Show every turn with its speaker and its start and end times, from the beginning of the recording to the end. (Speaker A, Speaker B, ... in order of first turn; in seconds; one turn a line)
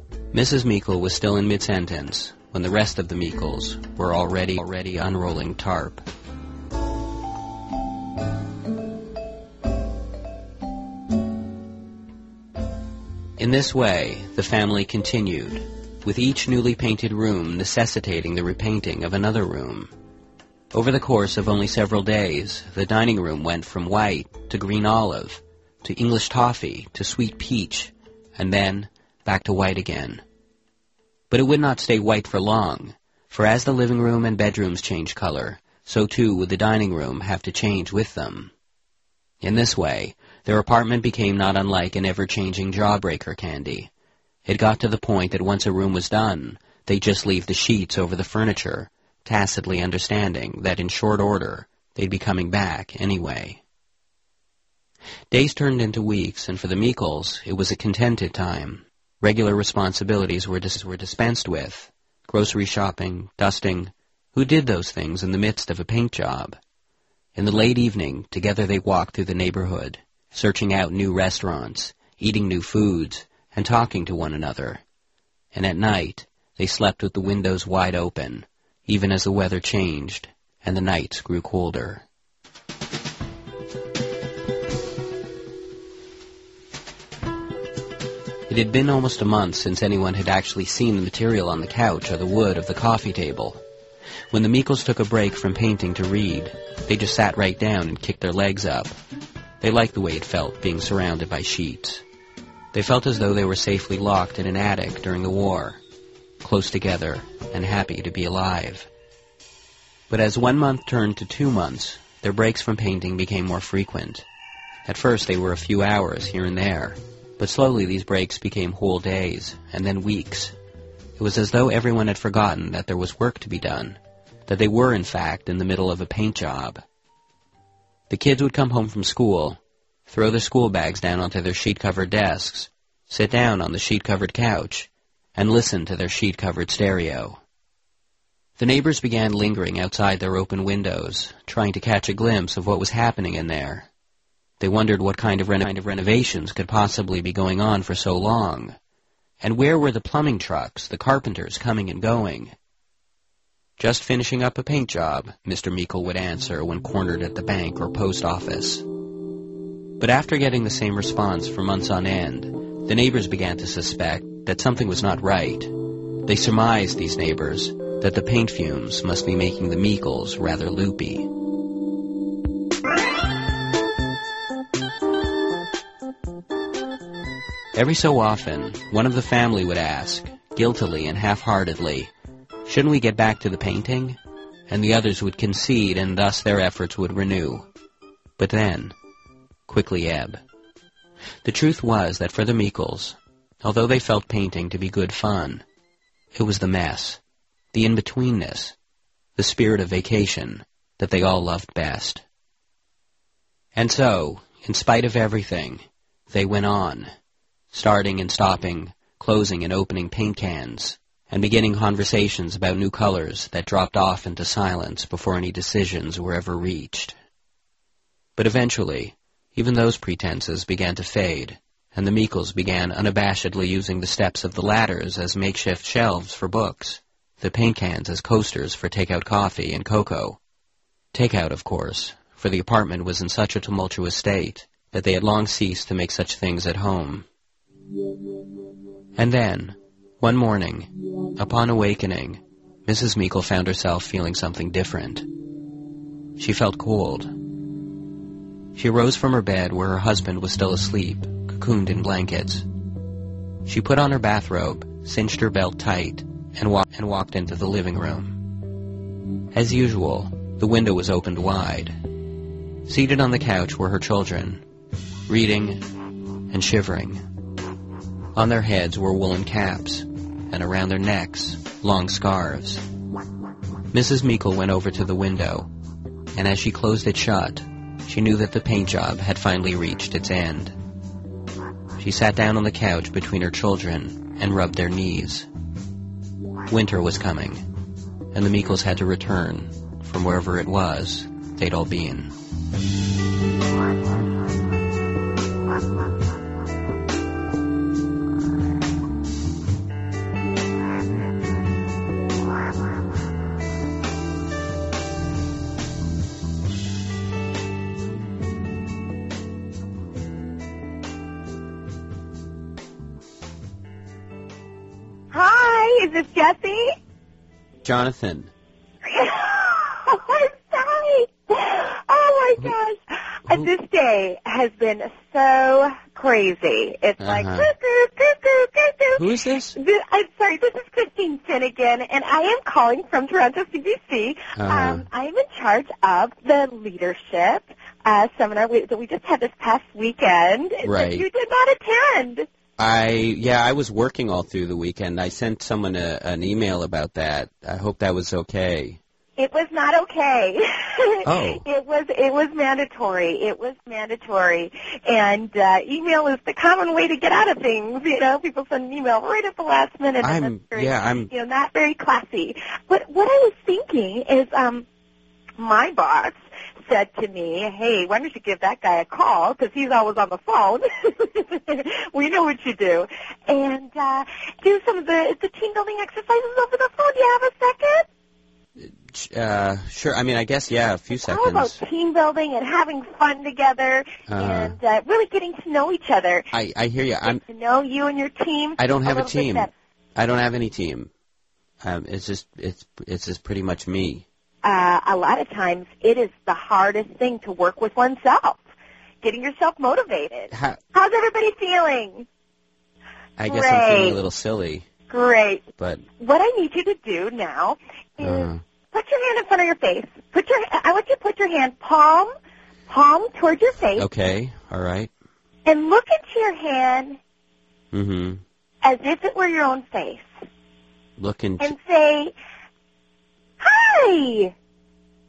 Speaker A: 0.3-6.0
Speaker A: 13.4-19.9
Speaker A: 20.7-30.2
Speaker A: 31.3-38.5
Speaker A: 39.4-43.9
Speaker A: 44.5-53.6
Speaker A: 55.3-66.6
Speaker A: 67.3-74.8
Speaker A: 75.5-82.0
Speaker A: 88.5-93.6
Speaker A: 94.3-98.9
Speaker A: 99.6-102.0
Speaker A: 102.7-105.8
Speaker A: 106.4-108.9
Speaker A: 110.1-114.2
Speaker A: 114.8-120.5
Speaker A: 121.2-126.8
Speaker A: 128.1-137.4
Speaker A: 138.6-143.9
Speaker A: 144.6-148.7
Speaker A: 149.4-152.5
Speaker A: 153.8-158.8
Speaker A: 160.0-165.7
Speaker A: 166.2-171.3
Speaker A: 177.7-182.1
Speaker A: 182.7-187.7
Speaker A: 188.4-188.9
Speaker A: 189.7-190.4
Speaker A: 191.4-195.6
Speaker A: 196.3-197.2
Speaker A: 197.7-198.7
Speaker A: 199.3-202.2
Speaker A: 203.7-207.1
Speaker A: 207.7-217.2
Speaker A: 218.4-230.4
Speaker A: 231.1-237.2
Speaker A: 239.2-245.3
Speaker A: 246.4-247.3
Speaker A: 248.7-252.6
Speaker A: 253.6-258.4
Speaker A: 259.5-262.0
Speaker A: 262.9-264.6
Speaker A: 265.3-265.8
Speaker A: 266.5-267.2
Speaker A: 268.3-272.8
Speaker A: 273.9-275.7
Speaker A: 276.3-280.7
Speaker A: 282.0-285.5
Speaker A: 286.7-287.7
Speaker A: 288.3-292.3
Speaker B: 315.3-316.9
Speaker A: 317.8-318.5
Speaker B: 319.0-329.2
Speaker A: 327.2-327.7
Speaker A: 329.1-329.8
Speaker B: 329.8-342.5
Speaker A: 334.6-335.0
Speaker A: 340.8-341.2
Speaker A: 342.8-349.0
Speaker B: 349.4-364.9
Speaker A: 351.2-351.6
Speaker A: 360.2-361.3
Speaker B: 365.6-378.1
Speaker A: 378.8-381.8
Speaker B: 381.1-386.5
Speaker A: 384.3-384.8
Speaker A: 386.5-387.4
Speaker B: 387.2-389.7
Speaker A: 388.8-391.1
Speaker A: 391.8-394.2
Speaker B: 394.6-398.6
Speaker B: 399.2-402.3
Speaker A: 400.5-400.8
Speaker A: 403.4-404.8
Speaker B: 403.5-404.2
Speaker B: 405.1-405.6
Speaker A: 405.8-406.0
Speaker B: 406.2-412.3
Speaker A: 408.2-408.6
Speaker B: 412.9-414.0
Speaker A: 414.0-415.1
Speaker B: 415.6-417.2
Speaker A: 417.9-418.4
Speaker B: 418.8-420.3
Speaker A: 421.2-421.7
Speaker B: 421.6-422.3
Speaker B: 423.6-424.5